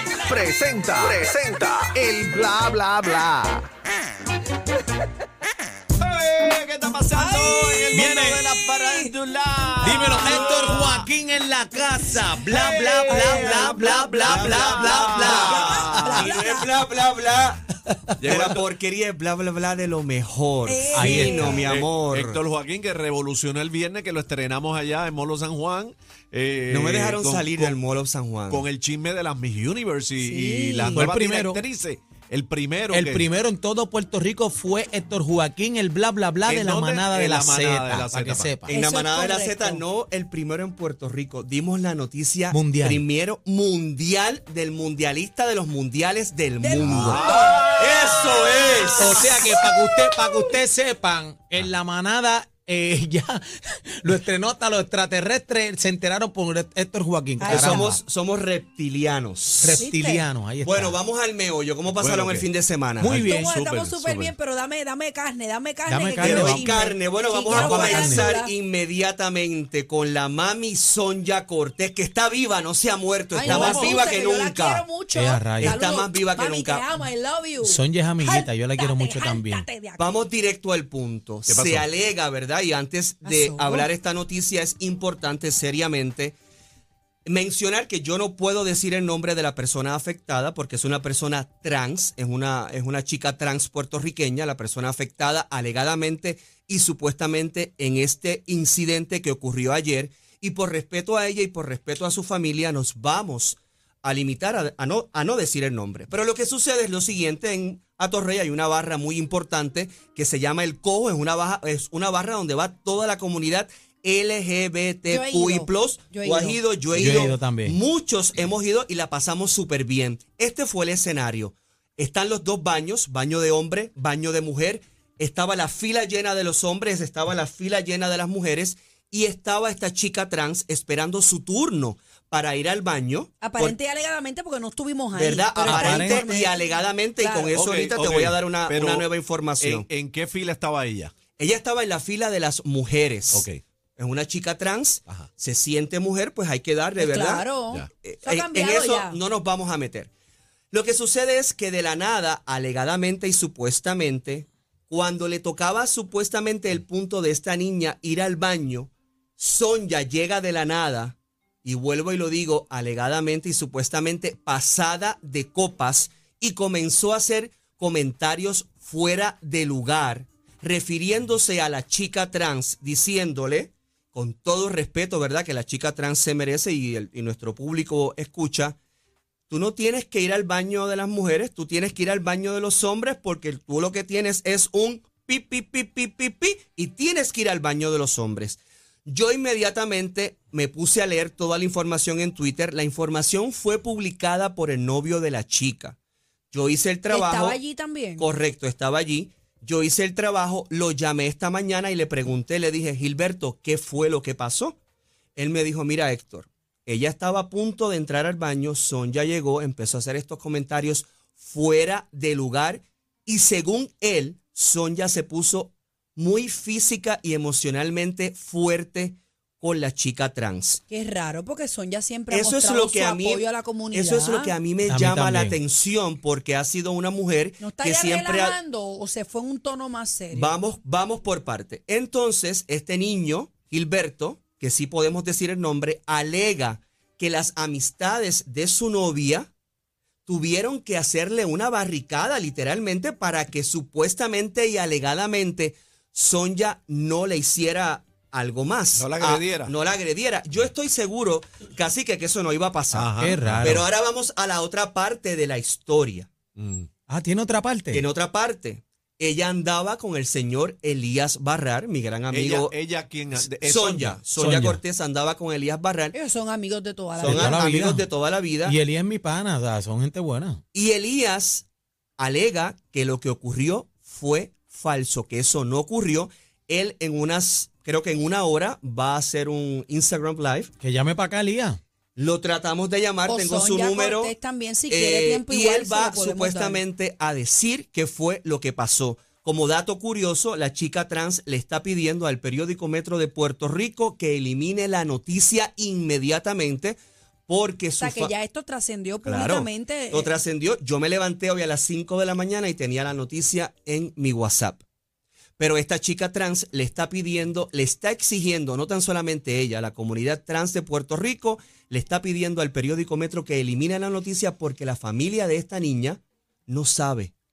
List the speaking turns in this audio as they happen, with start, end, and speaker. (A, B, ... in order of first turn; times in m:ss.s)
0:00.2-0:03.7 A
0:06.0-0:11.1 B
0:07.1-0:09.2 C
0:07.9-0:08.5 D
0:09.8-0:13.7 D
0:09.9-0:10.5 C
0:12.4-0:16.3 B
0:13.1-0:16.7 C
0:13.1-0:17.6 E
0:14.4-0:16.3 D
0:17.9-0:18.3 D
0:18.2-0:18.6 B
0:18.2-0:22.4 E
0:20.6-0:21.7 C
0:20.9-0:21.6 D
0:21.6-0:27.8 B
0:26.7-0:28.6 E
0:28.5-0:33.3 B
0:30.2-0:31.1 C
0:30.8-0:31.6 D
0:32.9-0:38.7 D
0:36.5-0:38.6 B
0:38.7-0:49.3 E
0:38.7-0:39.8 C
0:42.5-0:43.0 D
0:46.6-0:47.7 C
0:46.8-0:49.2 B
0:49.0-0:53.4 D
0:54.0-0:58.0 D
0:57.4-0:57.9 C
0:57.4-0:59.8 E
0:59.6-1:01.0 D
0:59.8-1:00.3 C
1:00.6-1:03.2 E
1:01.9-1:02.5 B
1:03.0-1:03.5 D
1:03.0-1:04.3 B
1:03.1-1:08.5 C
1:05.9-1:06.8 D
1:06.2-1:14.8 E
1:07.5-1:08.3 D
1:13.3-1:20.2 C
1:13.4-1:14.0 B
1:15.1-1:15.8 D
1:15.6-1:16.9 E
1:17.6-1:19.7 D
1:20.0-1:26.4 E
1:21.5-1:21.9 B
1:23.2-1:23.9 C
1:27.3-2:13.8 E
1:55.1-1:56.6 C
1:56.9-1:57.8 D
2:13.4-2:17.5 C
2:15.1-2:19.9 E
2:15.7-2:16.5 D
2:17.5-2:19.1 B
2:19.6-2:21.1 B
2:21.4-2:23.5 E
2:23.3-2:23.6 B
2:24.0-2:27.5 E
2:27.0-2:29.2 C
2:28.0-2:30.1 E
2:30.7-2:58.8 E
2:59.5-3:16.0 E
3:16.5-3:17.6 E
3:17.1-3:18.3 C
3:18.2-3:24.8 E
3:25.4-3:40.8 E
3:40.9-3:44.5 C
3:42.3-3:48.6 E
3:44.9-3:45.6 D
3:47.6-3:50.5 C
3:50.3-3:59.5 E
4:00.3-4:16.3 E
4:08.9-4:09.7 B
4:12.9-4:13.8 B
4:13.2-4:13.9 D
4:16.6-4:16.9 B
4:17.1-4:18.0 D
4:17.9-4:22.7 E
4:22.3-4:24.2 B
4:23.6-4:26.2 E
4:24.4-4:24.8 D
4:26.1-4:27.6 C
4:27.2-4:28.8 E
4:27.2-4:28.1 D
4:28.6-4:30.6 D
4:30.7-4:31.6 E
4:32.2-4:40.7 E
4:40.8-4:41.8 D
4:42.2-4:44.4 E
4:43.3-4:46.8 C
4:44.9-4:57.0 E
4:57.5-4:58.3 E
4:58.0-5:00.3 C
4:59.2-5:04.8 E
5:05.6-5:17.3 E